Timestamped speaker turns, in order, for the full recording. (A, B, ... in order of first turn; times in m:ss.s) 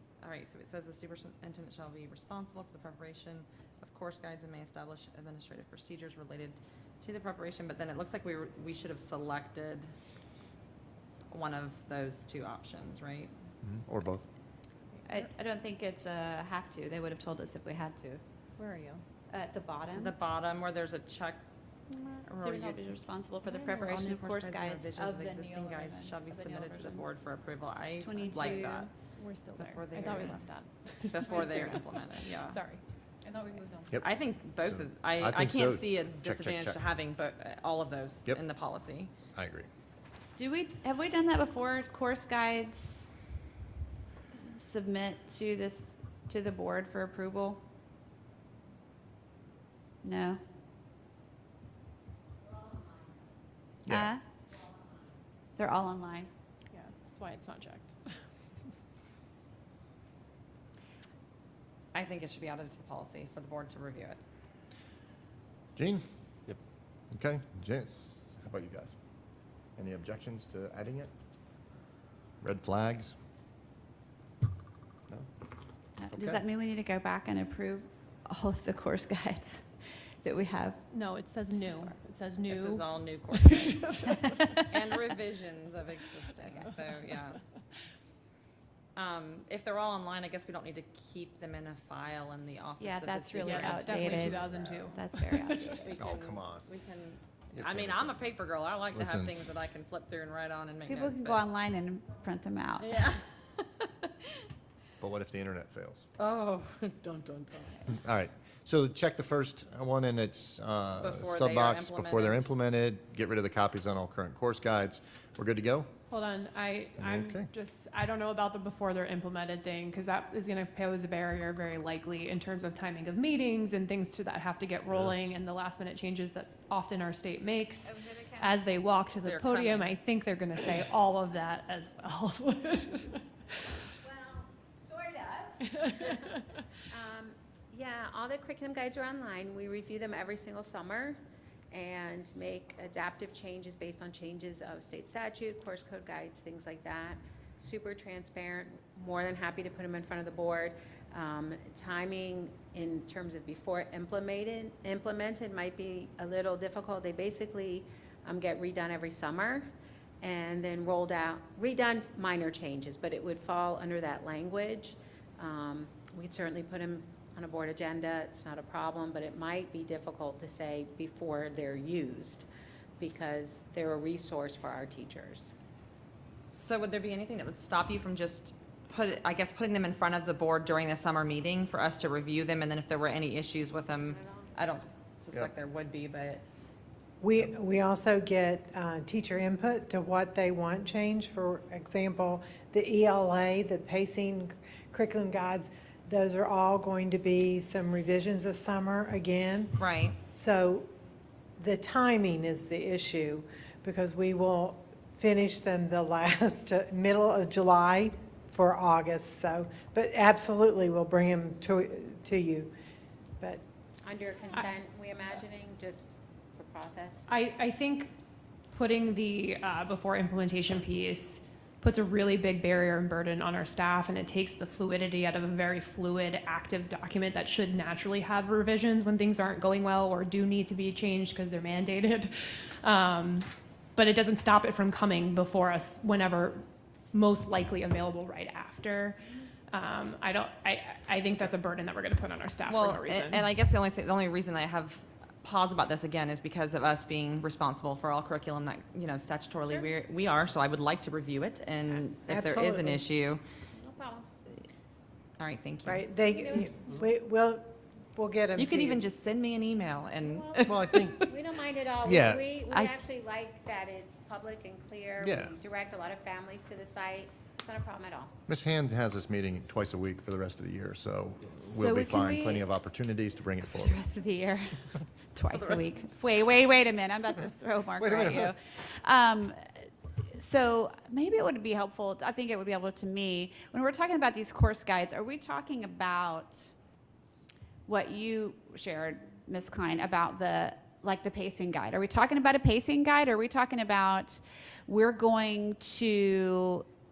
0:00.2-0:09.9 A
0:11.3-0:13.3 A
0:13.6-0:14.2 B
0:15.1-0:18.2 C
0:18.6-0:19.0 D
0:19.3-0:20.2 C
0:19.9-0:22.8 A
0:22.3-0:27.1 C
0:23.6-0:28.9 A
0:28.0-0:28.9 C
0:28.4-0:33.9 D
0:29.6-0:30.5 A
0:31.1-0:32.6 A
0:34.0-0:39.1 A
0:34.6-0:36.8 B
0:39.3-0:39.7 B
0:40.4-0:43.1 C
0:44.3-0:47.6 C
0:50.0-0:50.4 C
0:52.4-0:53.2 E
0:53.9-0:54.2 C
0:55.6-0:56.3 C
0:56.7-0:58.1 D
1:01.9-1:04.2 A
1:05.8-1:06.0 B
1:07.1-1:09.0 B
1:09.8-1:11.1 B
1:12.4-1:13.1 B
1:16.0-1:20.9 C
1:16.1-1:16.4 B
1:20.9-1:24.4 D
1:21.5-1:22.0 C
1:22.5-1:24.0 A
1:24.3-1:24.6 C
1:24.6-1:27.4 A
1:29.0-1:34.8 A
1:32.8-1:35.9 C
1:33.3-1:35.9 D
1:35.6-1:41.4 A
1:36.0-1:36.6 B
1:37.5-1:38.3 B
1:38.9-1:39.4 B
1:40.9-1:43.0 C
1:42.8-1:44.1 A
1:45.0-1:46.1 B
1:46.2-1:47.9 A
1:47.9-1:55.9 B
1:51.0-1:52.5 A
1:56.1-2:13.2 D
1:57.0-1:57.5 B
2:09.2-2:09.9 A
2:14.0-2:21.2 E
2:21.7-2:39.7 E
2:40.2-2:52.5 E
2:53.0-2:55.5 E
2:56.5-3:06.4 A
3:07.2-3:20.9 F
3:19.8-3:20.2 A
3:21.6-3:32.7 F
3:34.0-3:37.3 E
3:37.3-3:38.1 D
3:38.7-4:03.4 D
4:02.7-4:13.4 A
4:12.3-4:13.0 F
4:13.8-4:14.3 E
4:15.4-4:16.1 A
4:15.9-4:19.0 F
4:16.1-4:17.0 E
4:18.6-4:21.4 A
4:20.2-4:20.6 E
4:20.6-4:21.2 B
4:21.3-4:28.3 E
4:22.0-4:22.5 B
4:22.7-4:23.0 A
4:25.2-4:25.5 B
4:28.5-4:34.0 B
4:31.6-4:32.6 C
4:33.7-4:46.7 C
4:35.5-4:36.0 A
4:38.0-4:38.5 B
4:47.9-4:56.9 C